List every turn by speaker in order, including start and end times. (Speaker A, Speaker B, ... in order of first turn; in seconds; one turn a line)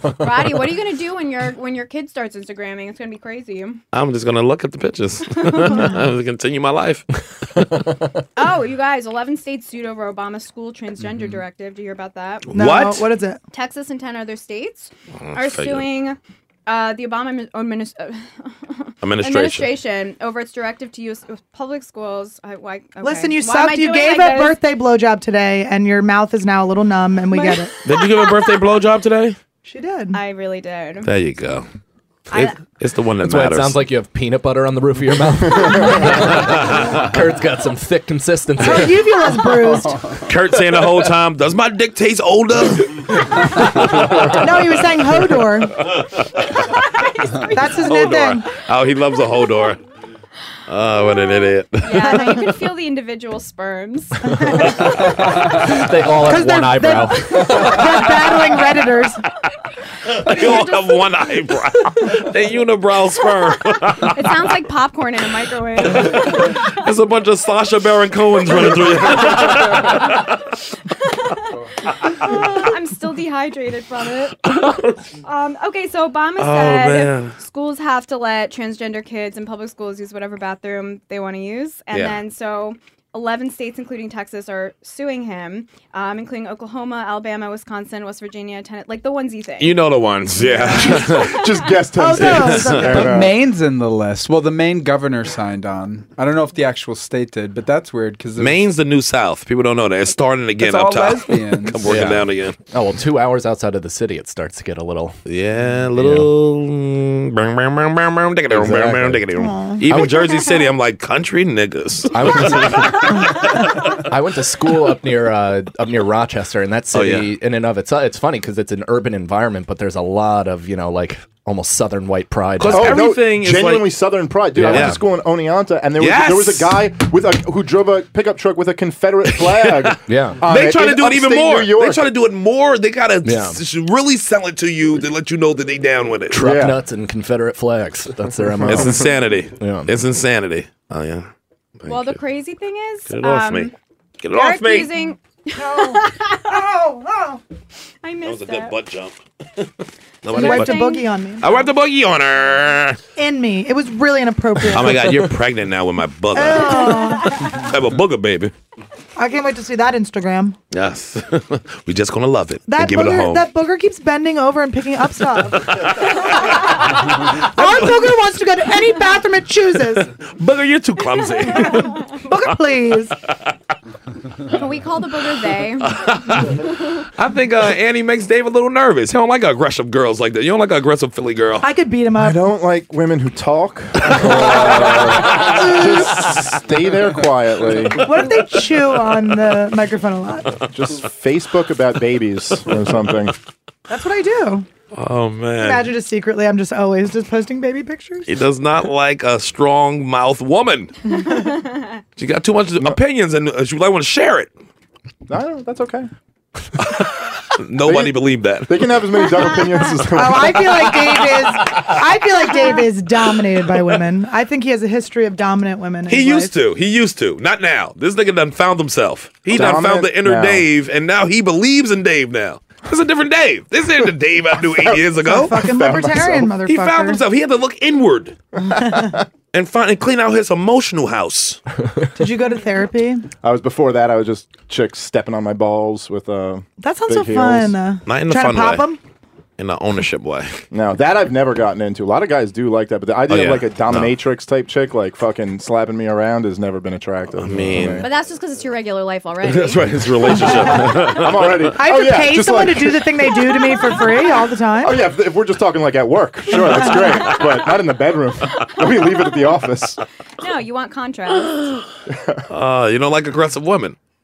Speaker A: 0.2-3.8
Speaker B: 3.9-7.0
Speaker A: 5.3-6.0
Speaker A: 8.4-12.5
Speaker B: 12.5-13.1
Speaker C: 12.5-13.4
Speaker A: 13.5-24.6
Speaker B: 15.2-15.9
Speaker B: 19.0-19.7
Speaker C: 23.0-27.7
Speaker A: 27.3-28.3
Speaker B: 27.8-29.4
Speaker C: 29.6-30.2
Speaker A: 30.1-31.1
Speaker B: 31.0-31.6
Speaker A: 32.3-32.6
Speaker B: 32.3-33.7
Speaker D: 33.2-39.2
Speaker B: 36.3-36.7
Speaker C: 38.6-40.0
Speaker E: 39.8-40.2
Speaker B: 40.3-44.3
Speaker D: 43.3-44.1
Speaker C: 44.3-45.9
Speaker A: 47.0-47.5
Speaker C: 47.5-48.5
Speaker B: 47.8-49.8
Speaker B: 50.7-52.4
Speaker A: 51.0-54.9
Speaker C: 54.2-55.0
Speaker D: 55.5-57.8
Speaker C: 56.2-59.2
Speaker B: 60.1-64.4
Speaker A: 60.2-61.3
Speaker A: 64.0-66.6
Speaker B: 65.8-70.4
Speaker A: 69.0-70.3
Speaker A: 71.1-89.8
Speaker B: 74.6-74.9
Speaker B: 76.4-77.3
Speaker B: 81.9-82.2
Speaker B: 89.6-91.4
Speaker A: 90.3-91.8
Speaker F: 90.6-93.4
Speaker C: 92.0-93.3
Speaker B: 92.2-93.0
Speaker E: 92.8-98.6
Speaker B: 98.4-102.5
Speaker E: 100.6-102.2
Speaker D: 101.8-105.2
Speaker B: 105.2-113.5
Speaker D: 105.9-106.3
Speaker D: 108.5-109.2
Speaker C: 109.4-109.8
Speaker D: 109.9-110.2
Speaker A: 110.3-110.7
Speaker D: 112.1-113.2
Speaker D: 114.1-123.1
Speaker B: 116.9-117.3
Speaker B: 122.6-124.0
Speaker F: 122.7-132.1
Speaker D: 124.5-125.0
Speaker B: 124.7-125.0
Speaker B: 126.0-126.8
Speaker B: 129.3-136.4
Speaker D: 130.1-130.4
Speaker D: 133.2-133.6
Speaker D: 136.3-139.9
Speaker F: 136.3-136.8
Speaker F: 138.6-138.9
Speaker B: 138.7-141.3
Speaker B: 141.8-142.2
Speaker A: 141.9-143.7
Speaker B: 143.1-143.7
Speaker B: 144.2-144.9
Speaker A: 144.3-146.7
Speaker C: 145.6-147.4
Speaker A: 148.0-148.7
Speaker B: 148.2-149.2
Speaker B: 150.2-150.8
Speaker A: 150.3-151.1
Speaker C: 150.3-151.5
Speaker B: 151.4-153.0
Speaker C: 153.2-155.2
Speaker B: 154.7-158.5
Speaker C: 156.3-157.5
Speaker A: 156.7-157.6
Speaker C: 159.2-160.6
Speaker B: 160.7-163.4
Speaker C: 162.7-166.7
Speaker B: 165.6-166.1
Speaker C: 167.2-170.1
Speaker B: 167.6-167.9
Speaker B: 170.2-171.9
Speaker A: 171.2-172.2
Speaker C: 171.6-173.1
Speaker A: 174.5-176.0
Speaker B: 176.0-176.6
Speaker B: 177.1-181.7
Speaker C: 181.6-182.4
Speaker F: 182.1-188.1
Speaker B: 184.1-186.4
Speaker C: 185.4-186.2
Speaker C: 187.9-190.5
Speaker F: 190.7-193.3
Speaker C: 193.9-194.7
Speaker B: 194.9-195.9
Speaker C: 195.6-198.3
Speaker B: 198.3-200.9
Speaker C: 201.2-201.5
Speaker A: 201.3-201.9
Speaker B: 202.2-204.5
Speaker F: 205.3-206.1
Speaker B: 206.8-208.7
Speaker F: 207.8-211.0
Speaker A: 209.6-209.9
Speaker C: 210.1-216.5
Speaker B: 216.1-225.6
Speaker F: 219.5-220.7
Speaker F: 224.6-226.5
Speaker C: 225.2-227.2
Speaker B: 226.7-228.4
Speaker C: 228.6-229.1
Speaker F: 228.8-229.2
Speaker B: 229.5-231.6
Speaker C: 232.2-233.3
Speaker F: 233.4-237.8
Speaker C: 236.8-239.0
Speaker B: 238.1-238.9
Speaker B: 239.6-240.6
Speaker F: 240.7-248.1
Speaker B: 243.3-244.1
Speaker B: 247.4-248.1
Speaker A: 248.0-251.2
Speaker B: 249.4-251.7
Speaker F: 251.1-253.2
Speaker C: 251.8-255.0
Speaker F: 254.8-260.0
Speaker C: 256.6-257.0
Speaker A: 258.8-259.2
Speaker A: 260.4-261.8
Speaker F: 262.1-262.4
Speaker B: 262.5-263.9